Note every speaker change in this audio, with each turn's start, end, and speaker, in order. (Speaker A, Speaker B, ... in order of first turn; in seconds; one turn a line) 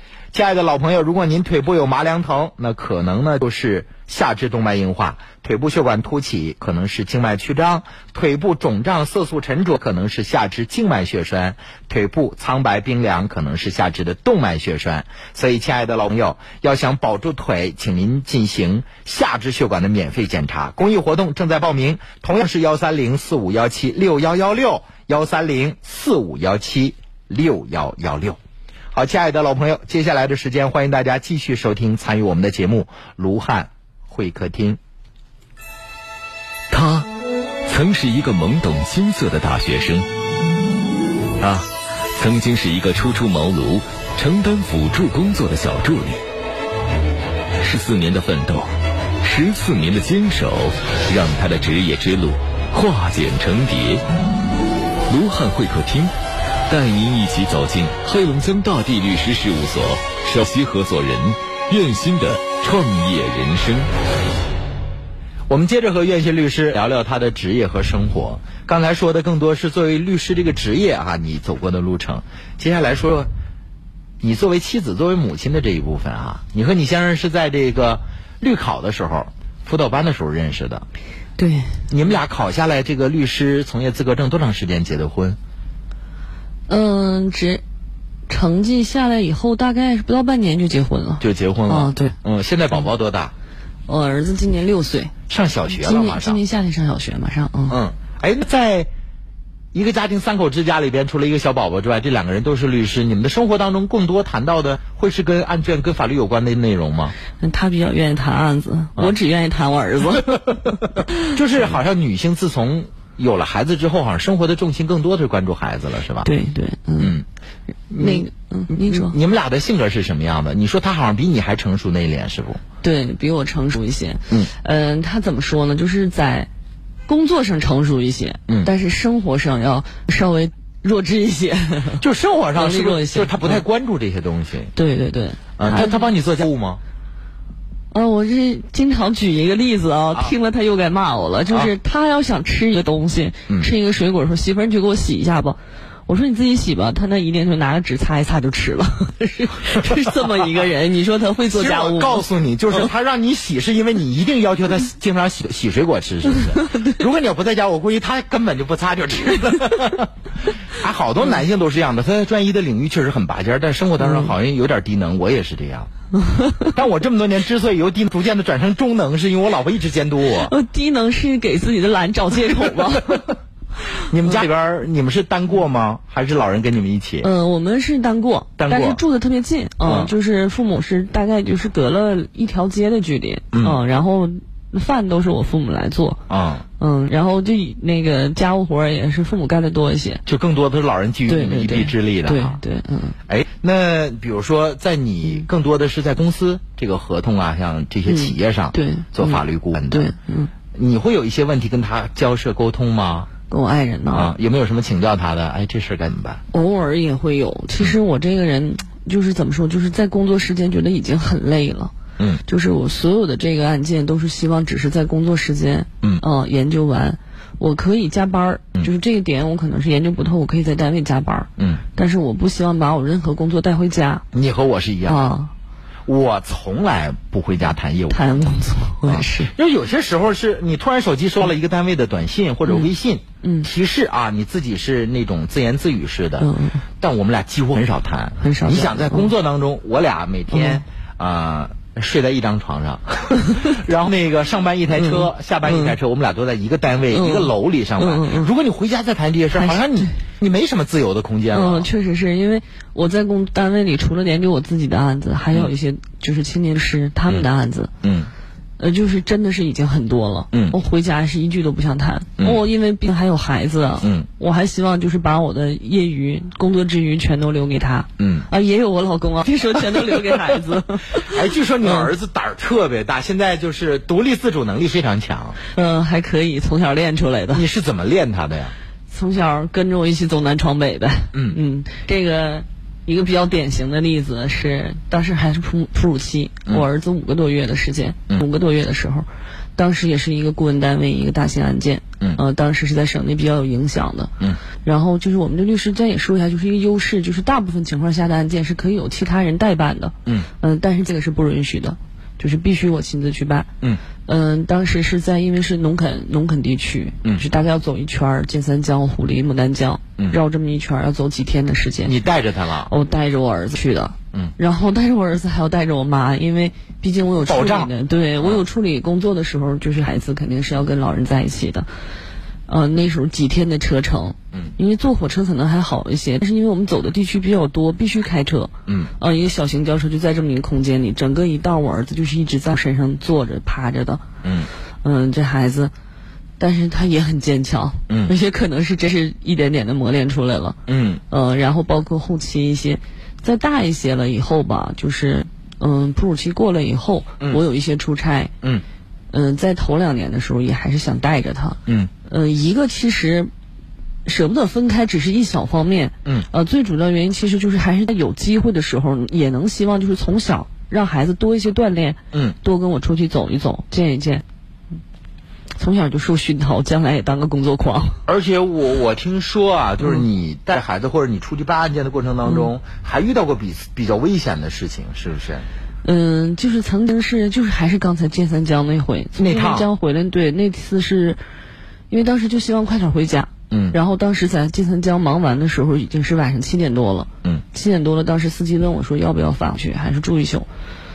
Speaker A: 0.3-28.4
Speaker A: 28.9-34.8
Speaker B: 36.7-37.1
Speaker B: 37.7-40.1
Speaker B: 41.4-46.2
Speaker B: 47.6-48.7
Speaker B: 49.2-54.0
Speaker B: 55.1-56.1
Speaker B: 56.7-63.9
Speaker A: 65.5-73.3
Speaker A: 74.2-80.9
Speaker C: 81.4-81.8
Speaker A: 81.9-85.4
Speaker C: 86.7-87.6
Speaker C: 88.3-92.2
Speaker A: 91.2-93.3
Speaker C: 93.9-95.1
Speaker A: 95.3-96.4
Speaker C: 95.7-97.8
Speaker A: 97.7-98.9
Speaker A: 99.7-107.2
Speaker C: 107.4-110.8
Speaker A: 111.2-116.3
Speaker C: 116.2-117.2
Speaker A: 117.0-117.2
Speaker A: 117.9-122.6
Speaker C: 118.0-119.2
Speaker C: 122.8-126.5
Speaker C: 127.1-133.6
Speaker A: 132.0-134.7
Speaker C: 134.7-136.0
Speaker A: 135.6-136.8
Speaker C: 137.9-152.9
Speaker A: 151.5-160.1
Speaker C: 156.6-156.9
Speaker A: 160.8-165.9
Speaker C: 164.0-164.3
Speaker C: 166.3-166.7
Speaker A: 166.7-170.5
Speaker C: 170.4-173.3
Speaker A: 174.1-177.3
Speaker C: 177.2-186.2
Speaker A: 178.6-179.0
Speaker A: 179.8-180.1
Speaker A: 183.5-183.8
Speaker A: 186.3-186.7
Speaker C: 186.8-190.2
Speaker A: 190.3-192.6
Speaker C: 191.3-193.2
Speaker A: 193.3-200.1
Speaker C: 198.1-200.5
Speaker A: 200.7-203.3
Speaker C: 203.5-204.3
Speaker A: 204.1-206.4
Speaker C: 206.5-211.9
Speaker C: 212.5-224.2
Speaker A: 224.3-225.2
Speaker C: 225.1-225.5
Speaker A: 226.1-236.5
Speaker C: 228.1-229.5
Speaker C: 233.4-233.7
Speaker C: 236.4-236.8
Speaker A: 237.0-251.9
Speaker C: 238.4-239.3
Speaker C: 240.5-240.8
Speaker C: 244.9-246.0
Speaker C: 247.1-248.5
Speaker C: 249.6-250.1
Speaker C: 251.5-257.9
Speaker A: 258.0-258.3
Speaker C: 258.8-272.1
Speaker A: 260.5-260.8
Speaker A: 264.0-264.3
Speaker A: 268.2-268.5
Speaker A: 271.3-275.6
Speaker C: 275.7-277.6
Speaker A: 277.5-278.7
Speaker C: 279.1-303.7
Speaker C: 304.3-312.2
Speaker A: 312.0-312.9
Speaker C: 312.9-321.9
Speaker A: 317.5-318.6
Speaker C: 322.7-334.2
Speaker A: 334.4-334.7
Speaker C: 335.0-335.9
Speaker C: 336.6-348.5
Speaker A: 340.9-341.2
Speaker C: 349.3-353.5
Speaker C: 354.2-364.4
Speaker C: 365.8-368.2
Speaker A: 368.3-375.7
Speaker C: 376.0-381.4
Speaker A: 379.4-379.9
Speaker C: 382.1-390.7
Speaker A: 383.7-384.0